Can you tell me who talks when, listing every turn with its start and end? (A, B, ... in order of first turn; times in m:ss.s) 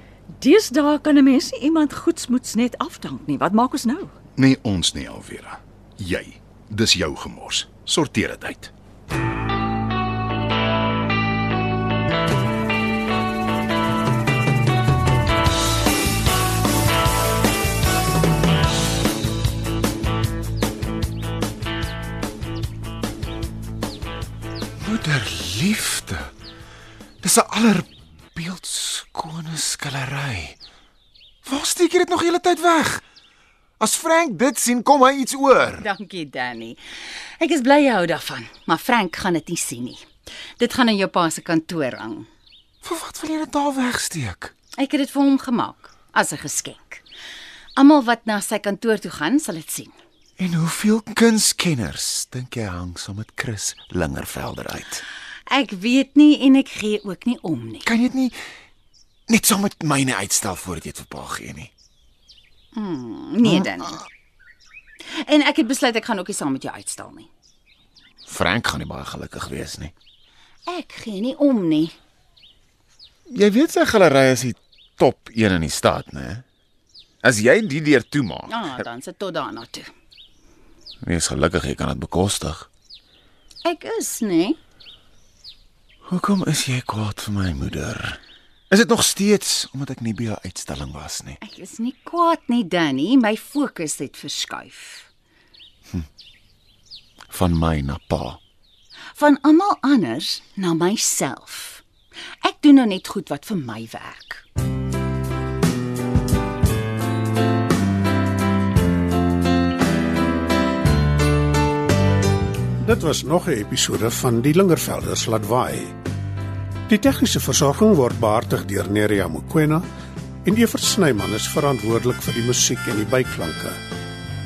0:00.4-0:04.1 A
0:04.4-0:08.7 B
0:24.8-0:26.3 C
0:27.2-0:30.6 C
0:31.4-0:33.0 C
0:33.8-0:35.8 C
0:35.8-0:36.8 D
0:37.4-0:40.0 D
0:40.6-0:42.3 D
0:42.8-0:44.5 C
0:44.8-0:47.0 D
0:47.8-0:49.9 D
0:50.4-0:55.0 C
0:55.5-0:57.9 D
0:57.9-0:58.4 C
0:59.3-1:01.7 C
1:02.8-1:04.0 D
1:05.0-1:07.3 D
1:08.3-1:09.9 C
1:10.7-1:11.9 D
1:13.3-1:16.4 C
1:17.2-1:18.8 C
1:18.5-1:19.9 D
1:21.0-1:22.7 C
1:23.6-1:24.6 D
1:26.1-1:31.4 C
1:31.4-1:35.1 D
1:37.3-1:38.4 C
1:39.2-1:41.8 D
1:42.4-1:44.4 D
1:52.8-1:56.0 E
1:56.9-1:59.9 E
2:00.4-2:03.8 E